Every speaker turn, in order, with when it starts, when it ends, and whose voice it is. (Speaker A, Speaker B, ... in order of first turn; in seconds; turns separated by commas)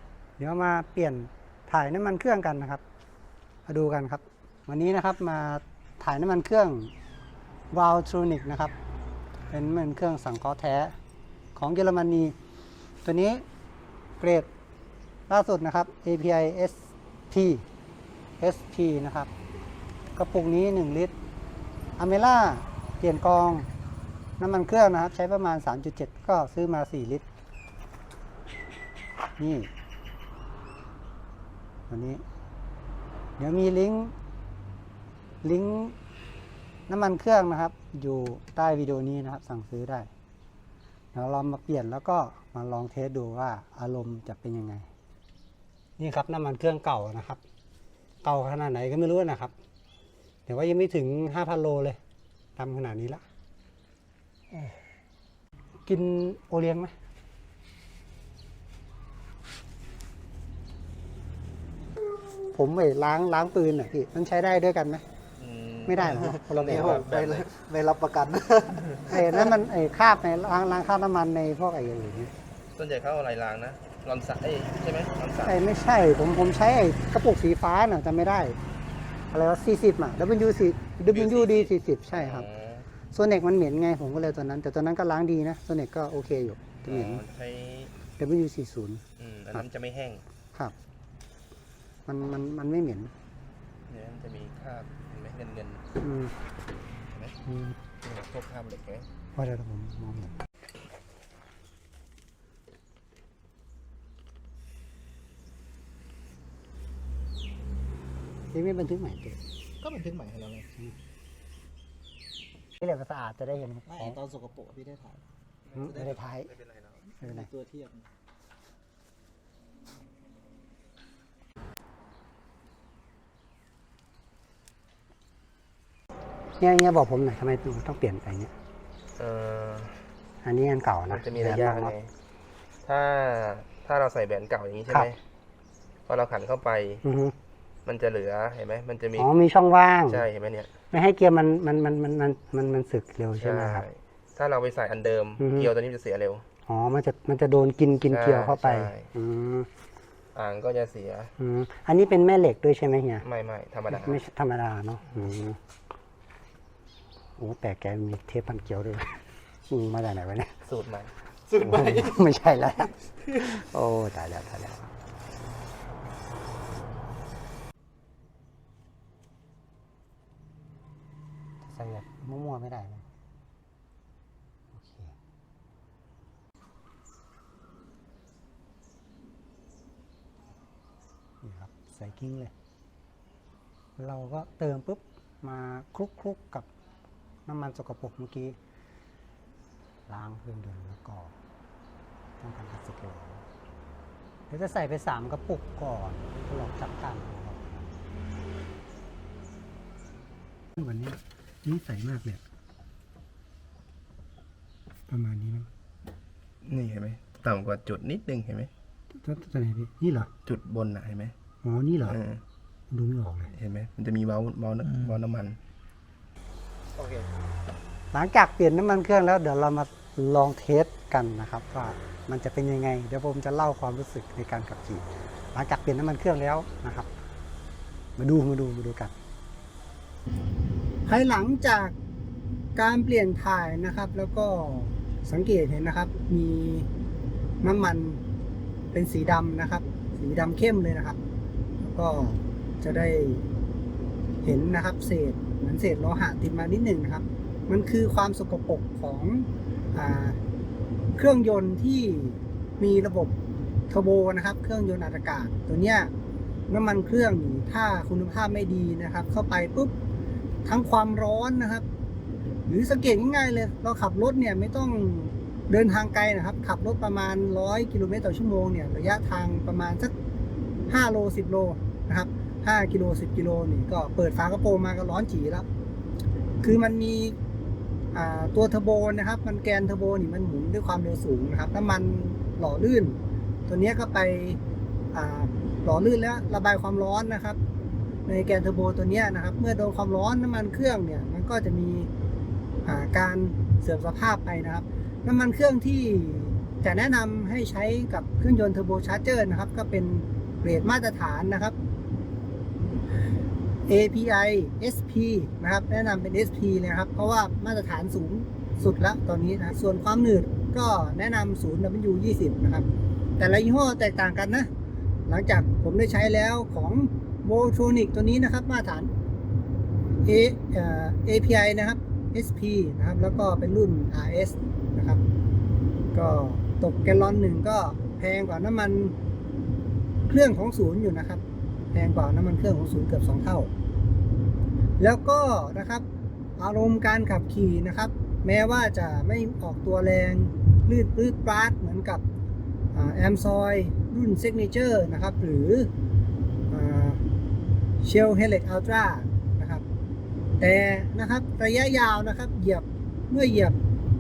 Speaker A: 0.4-2.8, Speaker A: 3.7-6.9, Speaker A: 7.7-8.8, Speaker A: 9.5-10.9, Speaker A: 11.6-12.3, Speaker A: 13.0-13.4, Speaker A: 14.2-14.5, Speaker A: 15.3-17.6, Speaker A: 18.4-19.3, Speaker A: 20.2-21.1, Speaker A: 22.0-23.7, Speaker A: 24.4-27.2, Speaker A: 29.4-29.7, Speaker A: 31.9-32.2, Speaker A: 33.4-34.1, Speaker A: 35.4-36.0, Speaker A: 36.9-40.1, Speaker A: 41.1-44.9, Speaker A: 46.0-47.4, Speaker A: 48.2-49.5, Speaker A: 50.5-52.0, Speaker A: 52.6-53.2, Speaker A: 55.9-56.9, Speaker A: 62.5-65.0, Speaker B: 65.4-67.6, Speaker A: 65.9-67.0, Speaker C: 66.7-69.0, Speaker A: 69.0-72.3, Speaker B: 72.8-75.6, Speaker A: 75.5-78.6, Speaker A: 79.3-82.5, Speaker B: 81.1-82.9, Speaker A: 83.1-87.2, Speaker B: 86.8-87.9, Speaker A: 88.2-89.0, Speaker B: 89.2-90.2, Speaker A: 92.1-93.1, Speaker B: 93.9-95.8, Speaker A: 96.0-96.3, Speaker B: 97.1-97.4, Speaker A: 97.5-97.8, Speaker B: 98.0-99.1, Speaker A: 99.4-100.4, Speaker A: 108.5-109.4, Speaker C: 109.8-110.7, Speaker A: 112.8-114.2, Speaker C: 113.9-115.2, Speaker B: 115.7-117.0, Speaker A: 115.7-116.5, Speaker C: 117.2-118.1, Speaker A: 117.2-117.5, Speaker A: 126.6-128.5, Speaker B: 129.2-130.1, Speaker A: 130.4-131.9, Speaker B: 131.1-132.1, Speaker B: 132.8-135.2, Speaker B: 136.1-137.0, Speaker A: 137.0-137.3, Speaker B: 137.9-139.3, Speaker A: 139.2-140.2, Speaker B: 140.1-140.7, Speaker A: 140.9-143.8, Speaker B: 143.4-146.4, Speaker A: 145.4-145.7, Speaker A: 146.7-149.7, Speaker B: 148.1-149.1, Speaker B: 150.3-151.3, Speaker A: 151.4-153.2, Speaker B: 153.2-154.2, Speaker A: 153.9-155.6, Speaker A: 157.4-160.6, Speaker B: 160.7-161.1, Speaker A: 161.5-164.9, Speaker A: 171.6-173.1, Speaker A: 174.7-175.1, Speaker A: 181.4-182.5, Speaker A: 184.0-186.7, Speaker A: 187.5-188.6, Speaker A: 190.1-191.3, Speaker A: 192.4-193.4, Speaker A: 194.5-197.9, Speaker A: 200.8-202.4, Speaker A: 205.1-205.7, Speaker B: 206.6-208.7, Speaker A: 209.2-210.3, Speaker B: 210.4-211.3, Speaker A: 211.6-212.2, Speaker B: 212.0-212.4, Speaker A: 212.9-213.5, Speaker B: 213.5-215.6, Speaker A: 218.1-227.1, Speaker A: 228.2-229.1, Speaker A: 231.1-231.9, Speaker A: 232.8-236.9, Speaker A: 237.6-238.2, Speaker A: 238.9-241.2, Speaker A: 241.8-243.5, Speaker A: 244.4-250.4, Speaker A: 251.2-253.3, Speaker A: 253.9-256.1, Speaker A: 256.7-259.9, Speaker A: 260.6-261.9, Speaker A: 262.7-270.1, Speaker A: 270.9-275.7, Speaker A: 276.6-277.4, Speaker A: 278.1-284.6, Speaker A: 285.1-287.6, Speaker A: 288.3-292.1, Speaker A: 292.9-301.8, Speaker A: 303.9-312.9, Speaker A: 313.4-314.7, Speaker A: 315.3-319.1, Speaker A: 320.2-325.2, Speaker A: 326.1-329.1, Speaker A: 330.3-331.4, Speaker A: 331.9-333.7, Speaker A: 335.0-336.1, Speaker A: 336.6-342.2, Speaker A: 342.9-345.9, Speaker A: 346.7-347.2, Speaker A: 348.0-349.8, Speaker A: 350.6-353.8